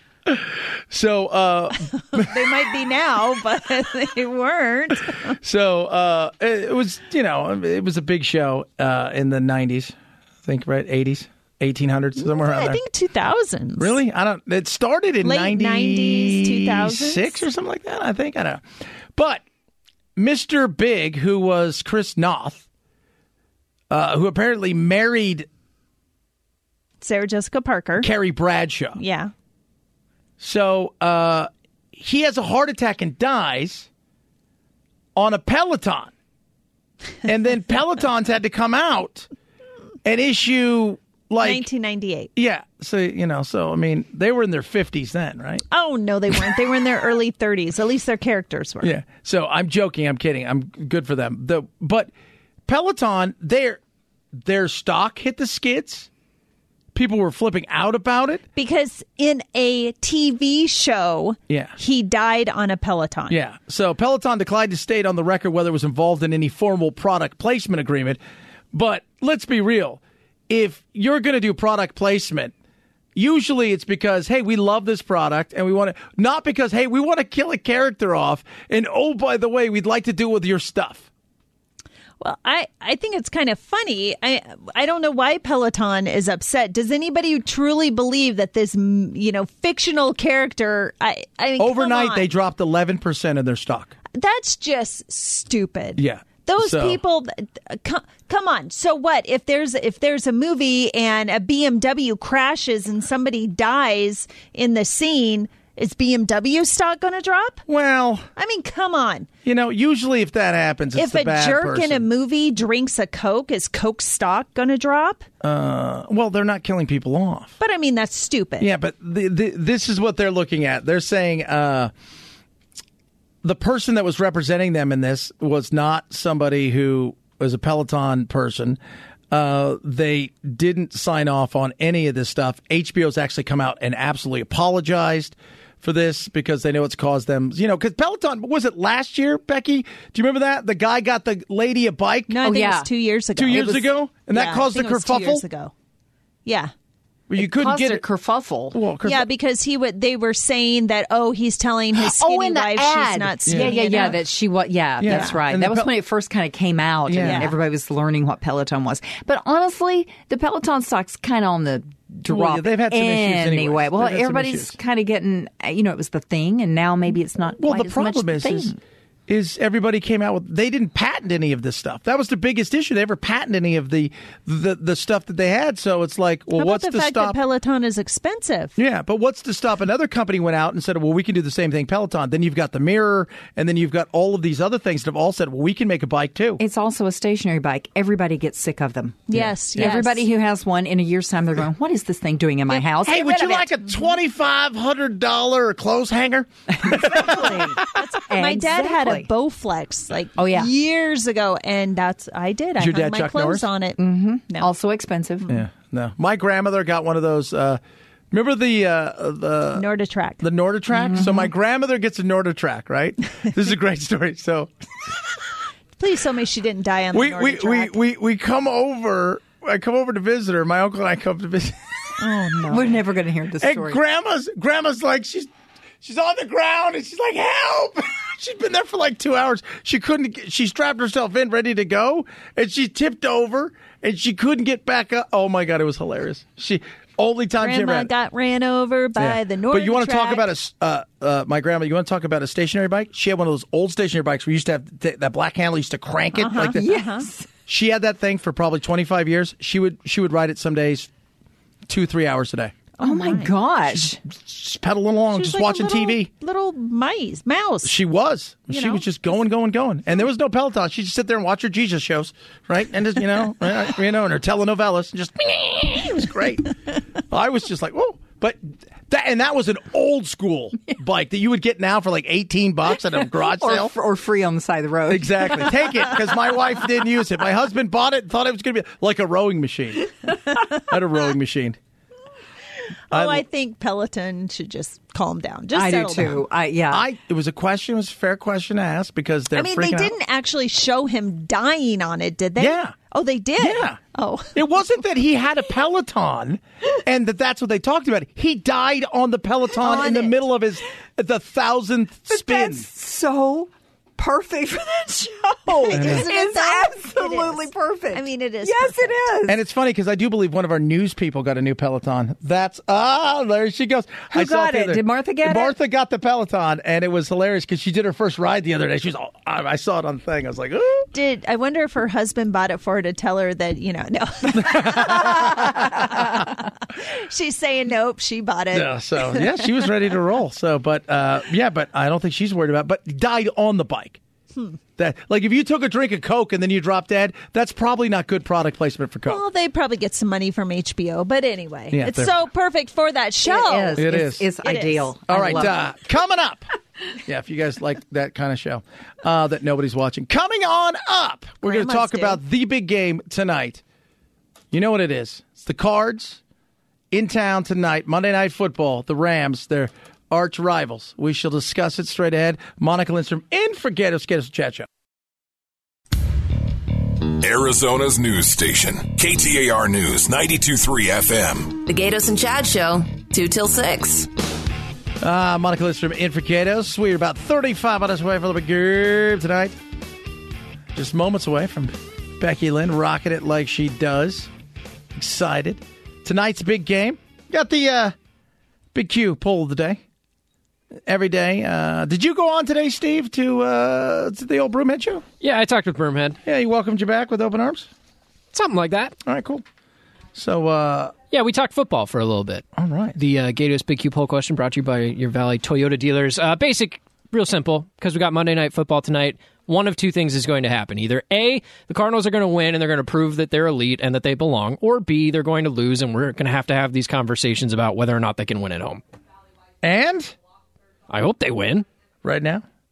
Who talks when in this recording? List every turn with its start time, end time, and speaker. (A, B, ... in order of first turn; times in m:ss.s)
0:00.3-0:02.4 A
0:02.1-0:05.4 B
0:05.4-0:09.9 A
0:10.4-0:12.8 A
0:12.2-0:14.0 B
0:13.8-0:18.6 A
0:15.2-0:17.5 B
0:19.2-0:19.4 A
0:20.2-0:22.7 A
0:23.9-0:25.5 A
0:27.0-0:28.1 B
0:28.0-0:29.0 A
0:29.0-0:29.3 B
0:30.4-0:33.9 A
0:35.2-0:36.1 A
0:37.2-0:39.3 A
0:40.0-0:41.7 A
0:41.4-0:42.3 B
0:42.4-0:45.6 A
0:45.7-0:48.9 B
0:48.8-0:52.1 A
0:52.7-0:53.8 A
0:54.4-0:56.1 A
0:56.9-0:58.4 A
0:58.6-1:03.4 B
1:01.5-1:01.8 A
1:03.3-1:08.2 A
1:08.7-1:12.5 A
1:13.2-1:21.1 A
1:22.2-1:32.3 B
1:31.6-1:33.9 A
1:34.2-1:47.6 B
1:36.0-1:37.0 A
1:47.7-1:48.3 A
1:48.4-1:49.3 B
1:49.4-1:52.0 A
1:50.9-1:55.2 B
1:55.4-1:57.5 A
1:57.6-1:58.7 B
1:58.6-2:01.9 A
2:03.4-2:08.8 A
2:09.3-2:22.4 A
2:22.3-2:25.7 B
2:22.4-2:22.9 C
2:23.4-2:25.4 A
2:26.5-2:26.7 B
2:27.3-2:28.0 A
2:27.4-2:28.8 C
2:28.7-2:29.3 A
2:29.0-2:34.2 B
2:32.0-2:48.8 C
2:33.5-2:34.2 A
2:35.0-2:36.0 A
2:35.0-2:35.4 B
2:37.1-2:37.5 A
2:37.2-2:37.6 B
2:42.3-2:44.8 A
2:47.6-2:48.7 A
2:49.3-2:57.4 A
2:56.6-2:58.8 B
2:58.8-3:06.6 A
3:06.6-3:13.7 C
3:09.3-3:10.2 B
3:09.3-3:10.0 A
3:13.0-3:17.8 A
3:16.8-3:19.3 C
3:17.8-3:24.7 B
3:20.4-3:20.7 C
3:22.8-3:23.7 A
3:24.0-3:25.5 C
3:25.5-3:27.8 A
3:28.3-3:29.9 A
3:29.8-3:30.4 B
3:30.4-3:35.1 A
3:31.1-3:31.5 C
3:36.0-3:37.9 B
3:37.1-3:41.8 A
3:42.2-3:43.0 B
3:42.7-3:44.0 C
3:43.6-3:45.5 A
3:46.0-3:58.1 A
3:57.6-4:00.5 B
3:59.2-4:06.8 A
4:06.4-4:07.3 B
4:06.7-4:07.5 C
4:07.7-4:11.1 A
4:11.9-4:12.7 A
4:13.0-4:13.5 B
4:13.0-4:14.2 C
4:14.0-4:16.3 A
4:15.3-4:17.9 B
4:17.8-4:26.8 A
4:18.7-4:19.0 B
4:27.3-4:33.9 A
4:33.1-4:35.9 C
4:35.1-4:41.8 A
4:43.1-4:46.4 B
4:43.1-4:43.4 A
4:45.7-4:47.1 C
4:46.9-4:50.1 A
4:49.5-4:54.6 B
4:52.6-4:53.0 A
4:53.6-4:54.0 A
4:54.6-5:02.9 A
4:59.8-5:00.4 B
5:02.3-5:09.6 C
5:05.8-5:09.3 B
5:05.9-5:06.3 A
5:09.5-5:21.1 A
5:14.3-5:15.7 C
5:21.1-5:29.7 B
5:24.5-5:26.3 A
5:28.7-5:34.2 A
5:35.0-5:39.4 A
5:39.3-5:44.1 B
5:41.9-5:42.4 A
5:43.4-5:45.8 C
5:44.0-5:44.5 A
5:44.6-5:45.7 B
5:45.3-5:46.7 A
5:47.2-5:53.8 A
5:51.6-5:52.4 B
5:54.7-5:56.4 A
5:57.1-6:04.9 A
6:07.4-6:11.8 D
6:11.8-6:14.3 E
6:15.2-6:19.8 A
6:20.9-6:24.5 A
6:25.2-6:28.1 A
6:28.9-6:30.0 A
6:31.1-6:35.2 A
6:35.4-6:36.4 F
6:36.4-6:37.9 A
6:38.5-6:39.2 F
6:39.2-6:39.6 A
6:40.4-6:41.1 A
6:41.3-6:42.6 F
6:42.8-6:43.2 A
6:43.2-6:59.0 F
6:59.8-7:00.3 A
7:01.1-7:01.9 F
7:02.2-7:02.6 A